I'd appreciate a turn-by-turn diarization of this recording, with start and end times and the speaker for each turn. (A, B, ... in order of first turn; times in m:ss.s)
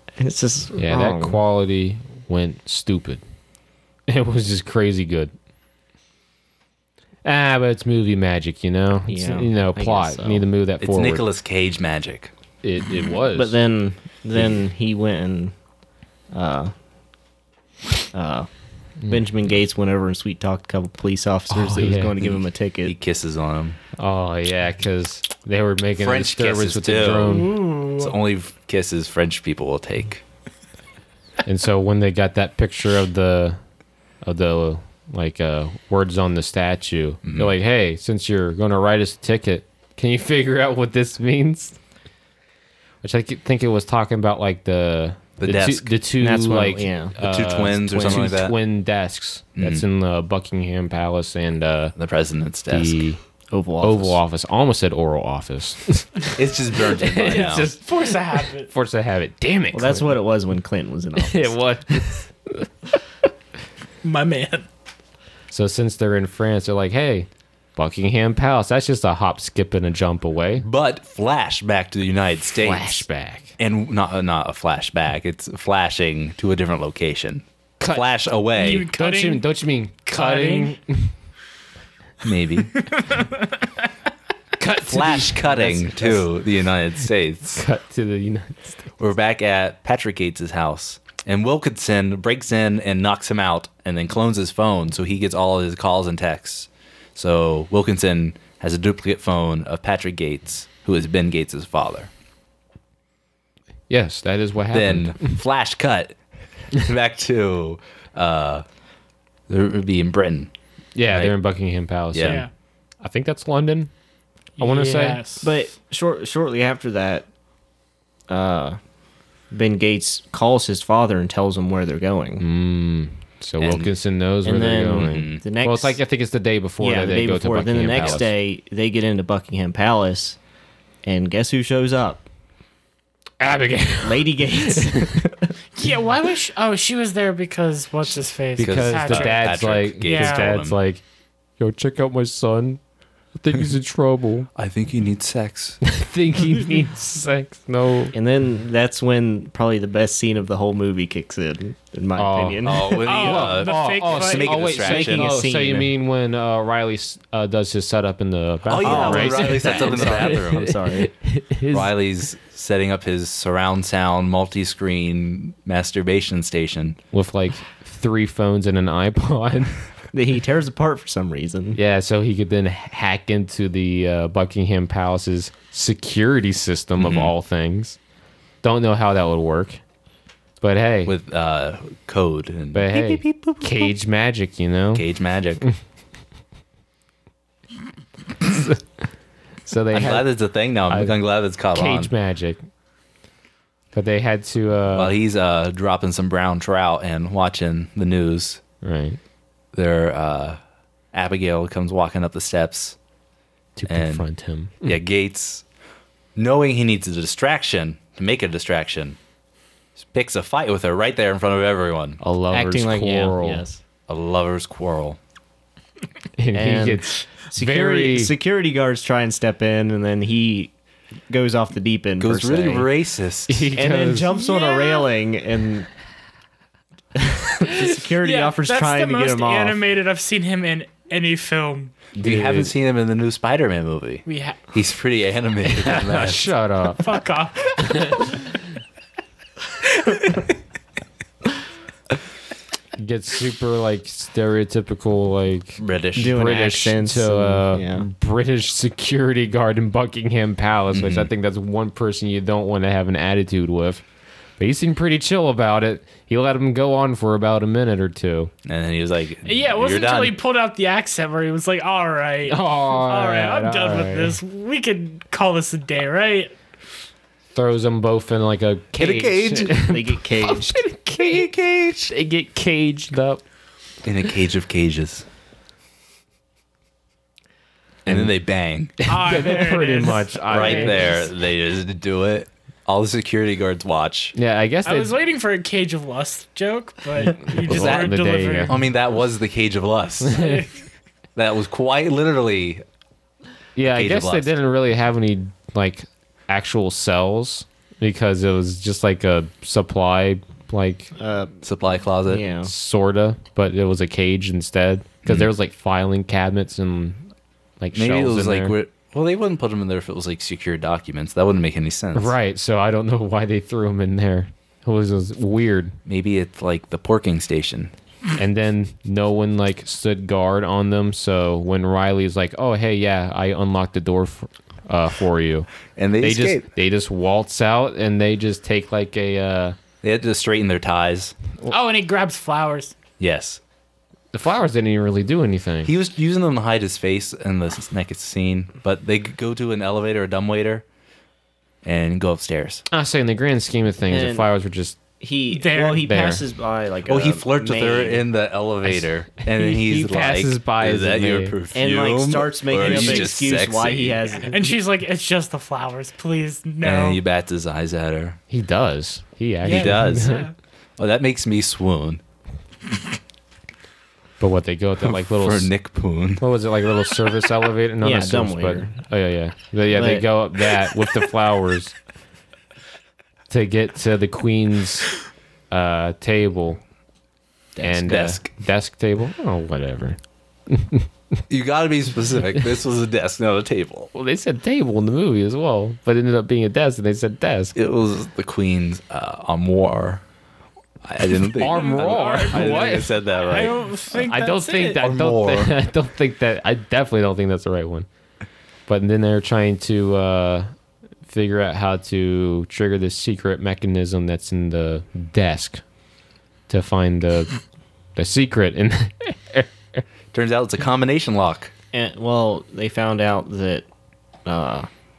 0:00.2-0:01.4 A
0:00.8-0:03.2 B
0:04.1-0:05.3 B
0:07.2-0:11.2 B
0:09.1-0:10.5 A
0:10.8-0:12.3 C
0:12.6-0:13.6 B
0:13.4-0:15.6 A
0:16.3-0:16.7 A
0:18.1-0:18.5 A
0:19.1-0:23.0 A
0:21.5-0:22.2 B
0:22.2-0:23.8 C
0:24.0-0:27.6 B
0:26.0-0:30.2 C
0:27.3-0:28.2 D
0:31.4-0:33.6 B
0:34.2-0:41.8 B
0:37.2-0:37.5 C
0:43.0-0:52.0 B
0:45.4-0:45.9 C
0:46.2-0:47.2 A
0:47.2-0:48.6 C
0:47.7-0:48.4 A
0:49.6-0:49.8 C
0:52.0-0:53.0 C
0:52.7-0:53.2 B
0:53.5-0:54.2 A
0:53.8-0:56.3 B
0:56.4-0:57.7 C
0:56.8-0:58.2 B
0:57.2-0:58.7 D
0:58.7-1:00.2 B
0:59.7-1:01.6 A
1:01.2-1:02.7 B
1:04.0-1:04.7 D
1:05.5-1:10.7 B
1:10.6-1:13.0 C
1:12.6-1:13.5 B
1:13.6-1:18.9 C
1:17.8-1:18.1 B
1:18.6-1:19.4 D
1:18.9-1:21.1 B
1:20.1-1:20.8 D
1:22.2-1:22.8 C
1:22.8-1:23.5 D
1:24.6-1:26.2 B
1:24.8-1:27.6 C
1:27.5-1:28.8 B
1:29.0-1:42.1 C
1:43.9-1:45.4 B
1:44.7-1:46.2 C
1:46.7-1:48.6 C
1:49.5-1:50.5 C
1:51.0-1:52.4 B
1:51.1-1:51.4 C
1:52.1-1:52.4 C
1:52.2-1:52.5 D
1:53.0-1:53.9 B
1:54.6-1:55.2 B
1:54.6-1:55.5 D
1:55.4-1:57.3 A
1:58.3-1:58.8 A
1:59.5-2:02.4 A
2:02.4-2:08.3 B
2:03.6-2:03.9 C
2:04.4-2:06.0 A
2:05.0-2:05.4 C
2:06.8-2:10.4 A
2:07.9-2:08.2 C
2:11.0-2:12.3 A
2:13.4-2:15.3 B
2:14.0-2:15.5 A
2:15.8-2:20.5 D
2:18.6-2:21.0 B
2:18.6-2:20.8 C
2:21.6-2:22.8 B
2:23.4-2:24.5 B
2:24.6-2:25.8 C
2:25.8-2:28.2 B
2:28.1-2:33.1 A
2:32.2-2:41.9 B
2:32.6-2:35.3 C
2:33.1-2:34.7 D
2:34.8-2:35.9 A
2:38.7-2:40.8 C
2:38.8-2:41.1 A
2:41.7-2:47.0 C
2:47.1-2:49.8 B
2:50.1-2:51.8 A
2:51.8-2:58.0 B
2:57.0-2:57.3 C
2:58.6-2:59.8 B
3:00.6-3:01.1 B
3:01.1-3:03.9 C
3:02.7-3:05.0 B
3:05.0-3:05.6 C
3:08.5-3:08.8 B
3:09.7-3:10.3 B
3:09.9-3:12.1 C
3:10.9-3:11.2 B
3:11.7-3:12.6 B
3:13.9-3:15.1 B
3:14.9-3:18.6 C
3:18.8-3:19.2 B
3:19.7-3:20.6 C
3:21.1-3:23.0 C
3:23.8-3:25.0 B
3:23.9-3:24.2 C
3:24.8-3:25.6 C
3:26.4-3:29.2 C
3:30.0-3:32.2 C
3:32.2-3:33.6 B
3:32.5-3:33.8 A
3:34.1-3:35.2 C
3:36.4-3:38.4 B
3:36.5-3:40.7 A
3:41.3-3:42.9 A
3:42.2-3:43.7 C
3:43.5-3:44.3 B
3:43.8-3:45.9 A
3:44.2-3:45.1 D
3:47.2-3:49.8 A
3:48.2-3:52.0 D
3:52.1-3:52.7 B
3:52.2-3:56.5 C
3:54.3-3:54.7 D
3:55.7-3:57.1 B
3:57.0-3:58.4 D
3:57.8-3:58.3 B
4:03.0-4:14.0 B
4:05.8-4:06.4 C
4:06.2-4:08.1 A
4:10.9-4:11.3 C
4:14.6-4:18.5 B
4:18.7-4:20.4 C
4:19.5-4:26.6 D
4:22.5-4:24.4 B
4:27.5-4:33.4 B
4:29.0-4:29.8 C
4:29.8-4:30.8 A
4:31.2-4:32.0 C
4:34.0-4:35.2 C
4:38.1-4:38.3 B
4:38.1-4:39.1 C
4:39.0-4:41.1 B
4:39.1-4:41.3 D
4:40.5-4:44.4 C
4:44.4-4:45.2 B
4:44.9-4:48.8 D
4:47.3-4:48.8 B
4:47.6-4:50.4 C
4:50.3-4:50.6 B
4:50.3-4:50.7 D
4:51.4-4:52.8 C
4:53.8-5:01.1 B
4:53.9-4:54.5 C
5:01.2-5:01.5 A
5:01.6-5:02.4 C
5:02.3-5:02.7 A
5:02.6-5:07.3 B
5:07.8-5:08.8 B
5:08.0-5:12.3 C
5:12.1-5:16.0 B
5:16.1-5:17.9 C
5:18.4-5:29.8 B
5:26.0-5:26.7 C
5:30.0-5:31.3 C
5:31.7-5:32.9 D
5:33.2-5:33.6 C
5:34.3-5:35.9 B
5:35.8-5:40.8 C
5:41.8-5:42.9 C
5:42.9-5:45.0 B
5:44.1-5:44.5 A
5:45.2-5:48.3 A
5:45.5-5:46.1 D
5:46.0-5:46.4 B
5:47.1-5:54.2 C
5:48.8-5:51.6 B
5:51.7-5:54.7 A
5:52.8-5:53.3 D
5:54.3-5:57.2 D
5:56.8-5:58.4 C
5:58.5-6:00.5 B
5:59.6-6:00.5 D
5:59.6-6:00.4 C
6:01.0-6:02.2 C
6:04.4-6:05.7 B
6:05.2-6:06.4 C
6:06.4-6:12.0 B
6:08.0-6:08.9 A
6:09.9-6:10.3 A
6:13.5-6:15.1 B
6:15.7-6:16.8 B
6:17.8-6:18.1 A
6:17.8-6:21.1 B
6:18.1-6:18.5 C
6:21.5-6:24.1 C
6:24.1-6:27.8 B
6:27.8-6:30.2 C
6:31.0-6:34.2 C
6:31.6-6:33.2 B
6:31.6-6:35.0 D
6:34.3-6:38.1 B
6:35.0-6:35.8 C
6:38.9-6:40.7 B
6:41.3-6:45.8 B
6:46.7-6:47.6 B
6:48.2-6:50.0 B
6:50.3-6:51.7 C
6:51.9-6:53.9 A
6:54.4-6:54.9 A